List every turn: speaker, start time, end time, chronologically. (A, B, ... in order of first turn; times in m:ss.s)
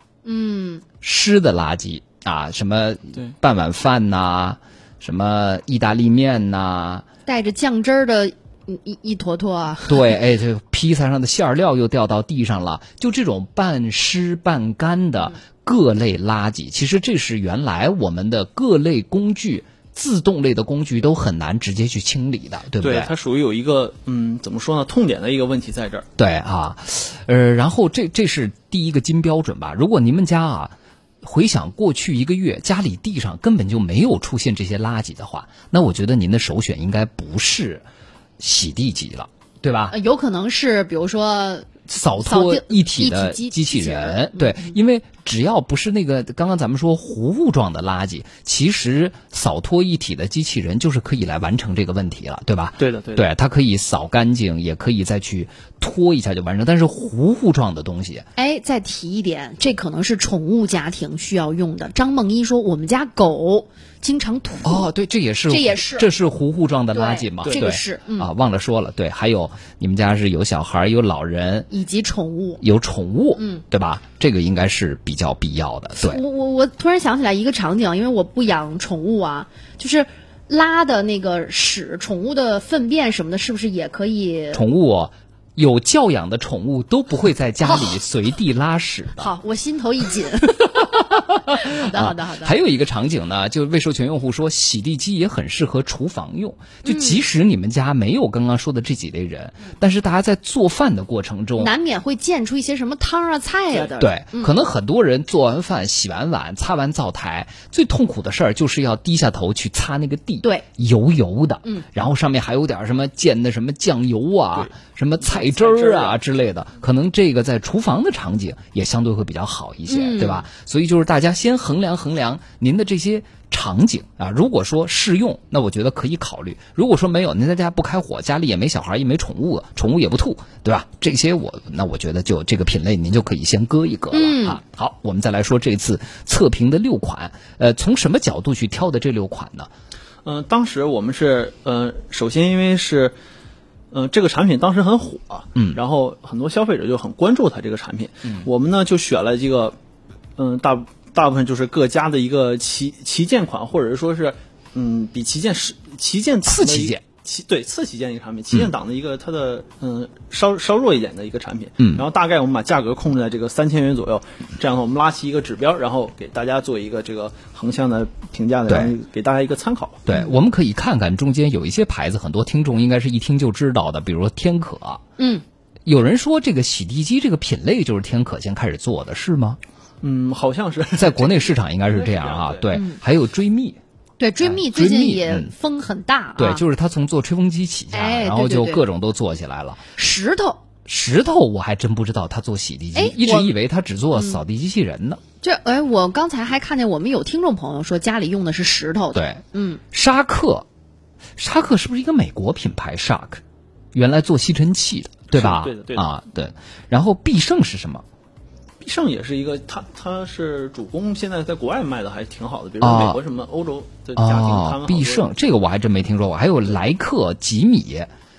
0:00.2-0:00.8 A
0:01.0-0:07.0 B
0:07.2-0:10.1 A
0:09.9-0:23.1 B
0:22.8-0:26.1 C
0:26.2-0:37.8 B
0:38.4-0:39.9 B
0:39.9-0:44.7 A
0:41.9-0:58.2 B
0:52.8-0:53.2 C
0:58.4-1:04.9 A
1:04.6-1:11.7 B
1:05.5-1:06.1 A
1:06.9-1:08.3 A
1:11.7-1:12.6 A
1:12.6-1:16.2 B
1:13.4-1:13.6 A
1:16.0-1:24.6 A
1:24.5-1:29.3 B
1:27.6-1:27.9 A
1:29.2-1:32.6 A
1:30.6-1:41.7 B
1:36.8-1:37.2 A
1:41.6-1:44.5 A
1:44.0-2:19.7 B
1:54.5-1:56.2 C
1:59.9-2:00.5 A
2:14.1-2:14.6 A
2:20.2-2:23.1 C
2:23.9-2:29.8 C
2:30.4-2:50.1 C
2:36.4-2:37.0 B
2:48.7-2:48.9 B
2:50.1-2:55.0 B
2:55.2-2:55.4 A
2:55.8-2:59.6 B
3:00.0-3:02.7 C
3:01.0-3:03.8 B
3:02.7-3:03.0 A
3:04.2-3:06.6 A
3:04.4-3:05.5 B
3:06.4-3:09.8 B
3:07.9-3:08.8 A
3:09.9-3:10.6 A
3:10.8-3:15.2 B
3:12.9-3:13.5 A
3:14.1-3:14.4 A
3:15.4-3:19.8 A
3:19.1-3:20.6 B
3:21.4-3:23.4 B
3:23.9-3:28.0 B
3:25.3-3:26.1 C
3:28.8-3:35.2 C
3:32.8-3:33.2 B
3:34.2-3:38.1 B